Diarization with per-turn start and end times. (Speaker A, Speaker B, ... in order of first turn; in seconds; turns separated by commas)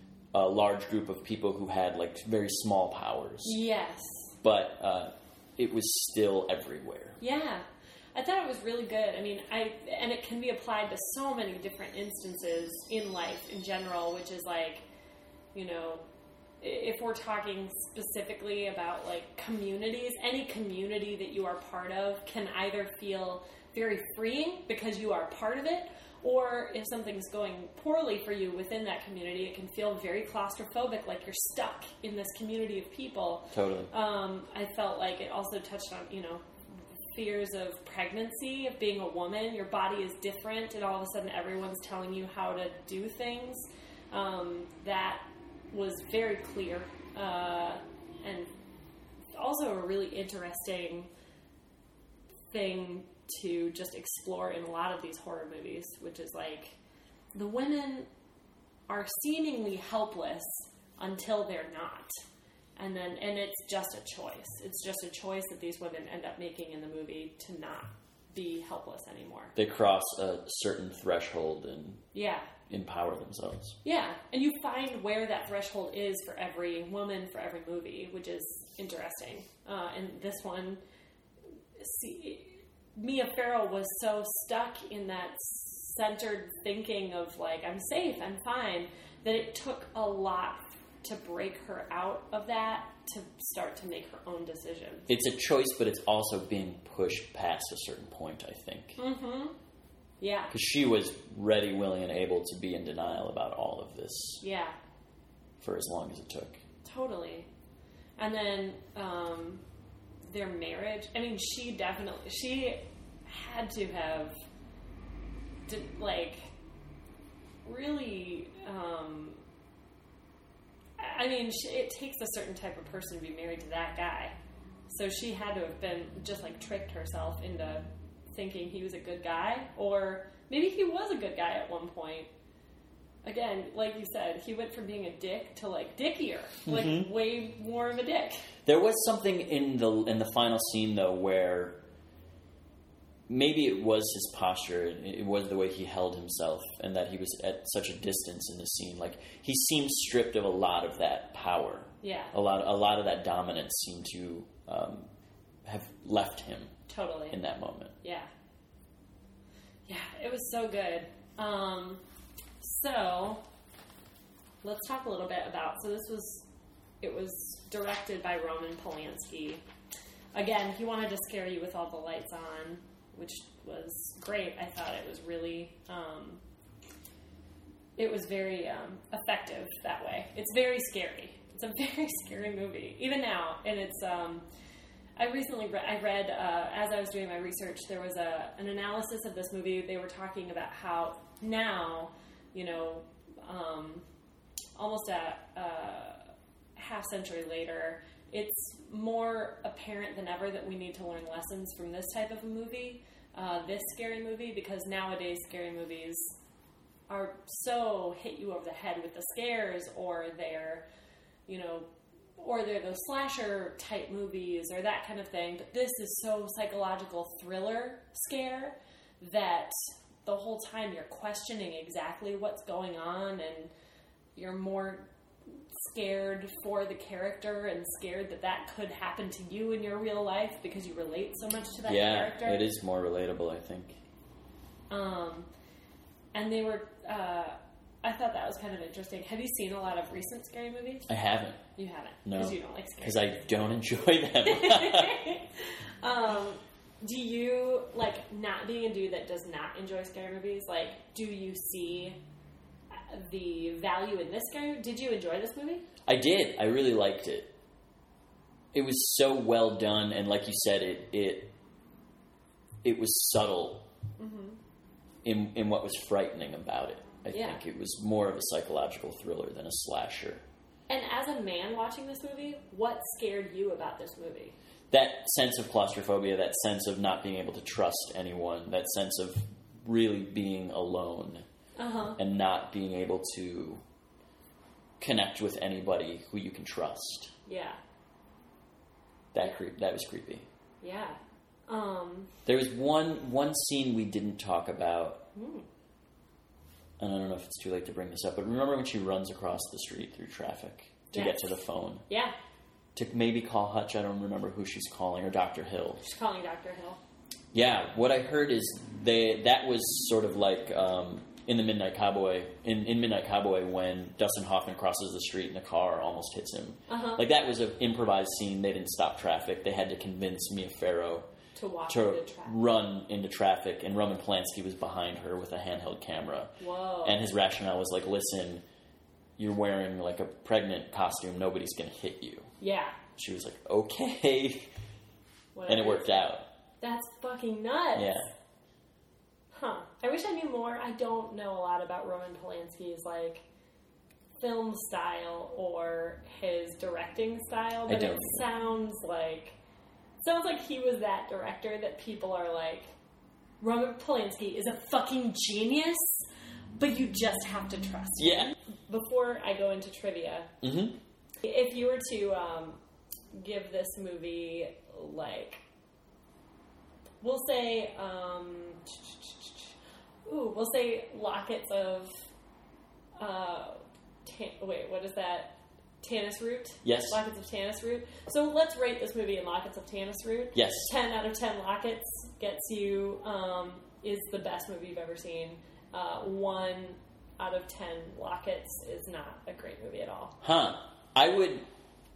Speaker A: 0.3-3.6, Speaker B: 3.4-4.3, Speaker A: 4.4-7.2, Speaker B: 7.2-14.8, Speaker B: 15.5-16.0, Speaker B: 16.6-36.4, Speaker A: 33.5-33.9, Speaker B: 37.1-48.5, Speaker B: 49.3-51.1, Speaker B: 52.5-56.8, Speaker B: 57.4-58.1, Speaker B: 58.9-62.1, Speaker B: 62.8-69.5, Speaker A: 69.5-72.0, Speaker B: 72.1-72.5, Speaker A: 72.7-73.8, Speaker B: 73.8-80.8, Speaker B: 81.8-95.1, Speaker A: 95.1-99.0, Speaker B: 99.0-99.5, Speaker B: 100.2-100.5, Speaker A: 100.5-104.4, Speaker B: 104.4-104.8, Speaker A: 105.6-106.6, Speaker B: 106.8-107.5, Speaker B: 108.2-109.6, Speaker B: 110.3-114.3, Speaker B: 115.7-116.5, Speaker B: 117.6-119.4, Speaker B: 121.0-124.3, Speaker B: 124.9-132.3, Speaker B: 133.2-138.5, Speaker A: 136.7-137.1, Speaker A: 138.7-141.8, Speaker A: 143.3-155.1, Speaker B: 152.0-152.3, Speaker A: 155.7-156.7, Speaker B: 156.9-157.4, Speaker A: 157.3-157.9, Speaker B: 158.0-158.3, Speaker B: 159.9-162.0, Speaker B: 162.6-163.4, Speaker B: 164.6-166.5, Speaker B: 167.0-169.6, Speaker B: 170.3-176.4, Speaker B: 178.0-184.4, Speaker B: 185.2-194.1, Speaker B: 194.8-206.4, Speaker B: 207.1-210.8, Speaker B: 211.5-219.7, Speaker B: 220.2-223.7, Speaker B: 224.4-225.1, Speaker B: 225.8-232.7, Speaker A: 231.9-234.0, Speaker B: 234.9-235.5, Speaker B: 236.3-241.1, Speaker A: 241.1-241.6, Speaker B: 241.8-243.3, Speaker A: 242.2-245.2, Speaker B: 244.4-252.2, Speaker B: 252.9-255.8, Speaker A: 256.1-257.5, Speaker A: 258.7-261.5, Speaker A: 262.8-263.9, Speaker B: 264.2-264.6, Speaker A: 265.2-270.4, Speaker B: 267.3-267.6, Speaker B: 270.9-274.6, Speaker A: 274.9-281.4, Speaker B: 281.8-282.2, Speaker A: 282.2-283.8, Speaker A: 285.0-287.3, Speaker B: 287.5-287.8, Speaker A: 289.3-290.5, Speaker B: 290.8-292.3, Speaker A: 292.5-295.2, Speaker B: 295.4-295.7, Speaker A: 297.0-302.0, Speaker B: 301.1-301.6, Speaker B: 302.1-302.4, Speaker A: 302.9-306.0, Speaker B: 306.0-307.0, Speaker A: 307.5-321.3, Speaker B: 316.9-317.2, Speaker B: 321.6-322.6, Speaker A: 321.9-328.6, Speaker B: 326.6-327.2, Speaker A: 329.4-332.5, Speaker B: 332.6-333.0, Speaker A: 333.2-334.7, Speaker B: 335.6-336.2, Speaker A: 335.7-336.5, Speaker B: 336.8-338.2, Speaker A: 337.9-338.3, Speaker B: 339.5-343.4, Speaker B: 344.4-349.6, Speaker A: 347.9-348.4, Speaker B: 350.2-352.9, Speaker B: 353.6-356.2, Speaker B: 356.8-360.6, Speaker A: 358.2-358.5, Speaker A: 360.6-361.0, Speaker B: 361.4-362.8, Speaker B: 363.3-365.6, Speaker B: 367.2-369.7, Speaker B: 370.2-372.1, Speaker B: 373.2-390.4, Speaker A: 376.8-377.2, Speaker A: 380.5-380.9, Speaker A: 390.4-391.6